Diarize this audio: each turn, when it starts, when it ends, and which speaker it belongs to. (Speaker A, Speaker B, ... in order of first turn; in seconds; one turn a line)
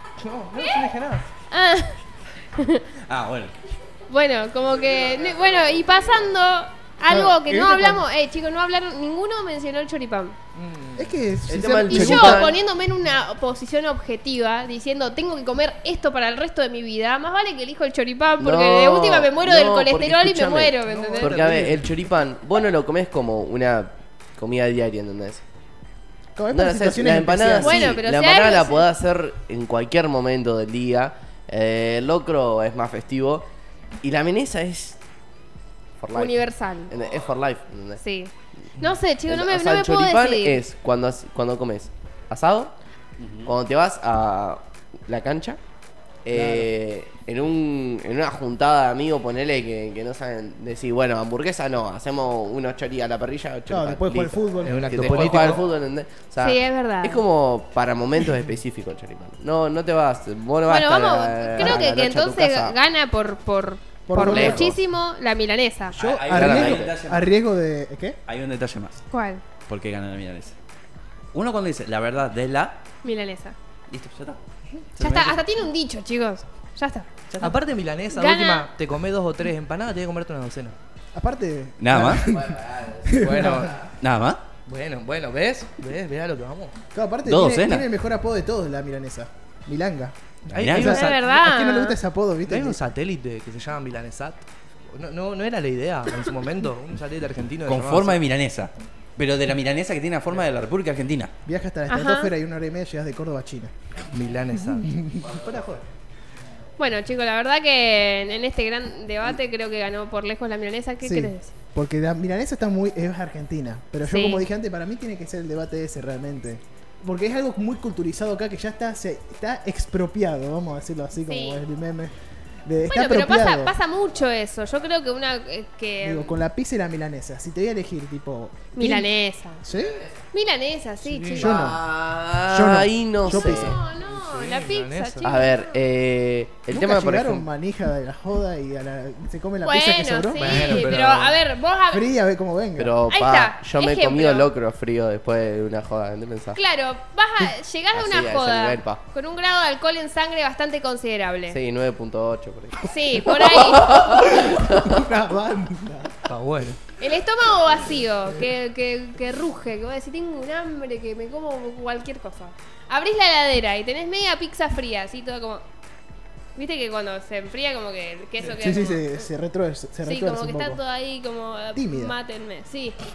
Speaker A: 0.2-1.3
Speaker B: 0.6-0.8
Speaker B: 1.5-2.8
Speaker C: 3.0-3.5
Speaker B: 4.1-10.3
Speaker D: 4.9-6.1
Speaker E: 7.1-8.0
Speaker A: 10.5-11.1
Speaker E: 10.9-12.5
Speaker D: 11.5-12.6
Speaker B: 11.9-21.7
Speaker D: 18.4-25.4
Speaker A: 20.8-21.9
Speaker E: 26.4-28.0
Speaker D: 26.5-33.5
Speaker B: 27.6-28.9
Speaker D: 34.0-35.0
Speaker D: 36.0-38.0
Speaker B: 36.1-36.9
Speaker B: 38.0-40.6
Speaker D: 39.3-42.7
Speaker C: 43.2-43.5
Speaker D: 43.4-45.6
Speaker D: 46.2-62.8
Speaker E: 46.3-46.7
Speaker E: 53.7-55.6
Speaker A: 54.6-55.6
Speaker B: 56.4-57.2
Speaker B: 60.7-66.0
Speaker E: 64.1-64.8
Speaker D: 64.1-64.6
Speaker C: 65.9-67.3
Speaker E: 65.9-68.2
Speaker D: 66.3-66.9
Speaker C: 68.3-69.0
Speaker B: 69.1-69.4
Speaker C: 69.7-70.5
Speaker C: 71.3-72.8
Speaker B: 73.0-73.5
Speaker C: 73.9-75.4
Speaker B: 75.0-77.1
Speaker C: 77.3-77.5
Speaker A: 77.4-80.8
Speaker B: 78.1-78.7
Speaker E: 81.1-83.8
Speaker C: 81.8-82.3
Speaker D: 82.3-83.9
Speaker A: 83.2-83.7
Speaker C: 84.0-84.4
Speaker A: 84.6-86.7
Speaker E: 86.9-92.8
Speaker C: 87.2-87.9
Speaker C: 90.5-90.9
Speaker A: 90.5-91.3
Speaker B: 90.8-92.0
Speaker A: 92.4-98.2
Speaker C: 97.7-101.3
Speaker E: 101.4-103.7
Speaker B: 101.9-102.3
Speaker A: 104.1-104.9
Speaker E: 104.7-105.8
Speaker B: 106.8-111.5
Speaker E: 111.0-122.1
Speaker B: 114.0-114.5
Speaker B: 121.2-121.6
Speaker E: 122.6-123.8
Speaker B: 122.9-126.4
Speaker E: 126.0-129.1
Speaker B: 128.8-129.6
Speaker E: 129.6-130.0
Speaker D: 129.7-130.2
Speaker B: 130.3-131.6
Speaker A: 131.0-131.6
Speaker E: 131.3-131.8
Speaker D: 131.5-133.8
Speaker E: 132.4-133.8
Speaker B: 133.3-135.8
Speaker A: 134.0-135.4
Speaker D: 135.2-137.4
Speaker E: 136.7-140.9
Speaker B: 139.6-142.1
Speaker A: 140.4-141.4
Speaker E: 141.9-143.0
Speaker D: 142.8-146.6
Speaker B: 143.1-144.5
Speaker B: 146.5-151.6
Speaker D: 147.9-149.0
Speaker D: 151.5-154.9
Speaker B: 152.8-154.2
Speaker E: 154.3-156.2
Speaker A: 156.2-156.8
Speaker B: 157.0-165.6
Speaker B: 166.5-169.3
Speaker E: 168.4-170.8
Speaker B: 170.0-173.0
Speaker E: 171.7-172.2